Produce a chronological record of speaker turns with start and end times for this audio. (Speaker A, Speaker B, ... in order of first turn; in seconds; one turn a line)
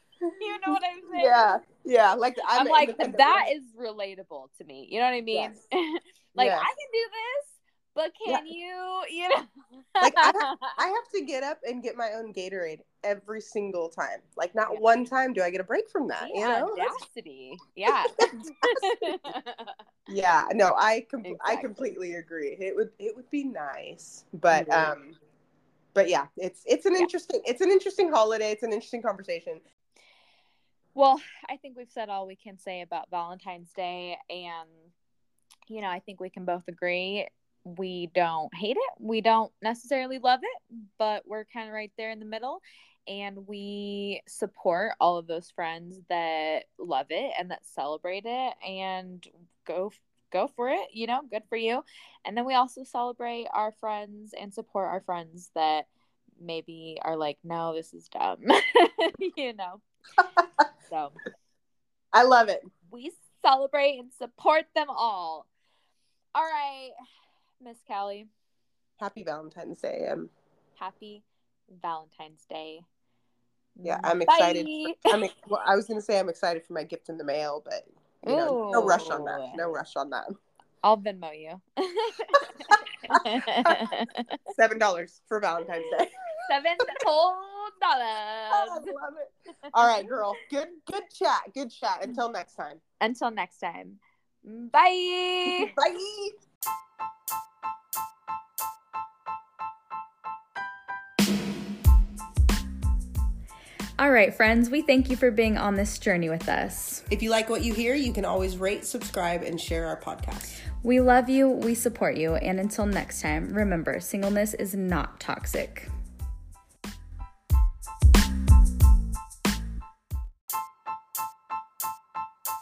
Speaker A: 0.2-3.4
Speaker B: 0.4-1.6
Speaker B: 2.6-10.7
Speaker A: 6.4-6.7
Speaker A: 10.0-16.9
Speaker B: 16.2-19.8
Speaker A: 20.1-25.2
Speaker B: 21.2-21.9
Speaker B: 24.5-24.9
Speaker A: 25.9-29.6
Speaker B: 31.0-34.9
Speaker B: 35.7-55.9
Speaker B: 56.4-59.8
Speaker A: 60.2-60.7
Speaker B: 60.9-61.2
Speaker A: 62.1-62.7
Speaker B: 62.9-65.5
Speaker B: 66.3-66.9
Speaker B: 67.6-68.3
Speaker A: 69.0-70.3
Speaker B: 70.8-72.8
Speaker B: 73.8-75.2
Speaker A: 73.8-80.3
Speaker B: 78.2-79.6
Speaker B: 80.8-84.4
Speaker A: 82.7-83.9
Speaker A: 84.5-86.1
Speaker B: 86.4-89.0
Speaker A: 88.5-92.8
Speaker B: 93.0-95.8
Speaker A: 95.5-96.4
Speaker C: 104.0-107.0
Speaker A: 107.1-110.6
Speaker C: 110.8-115.9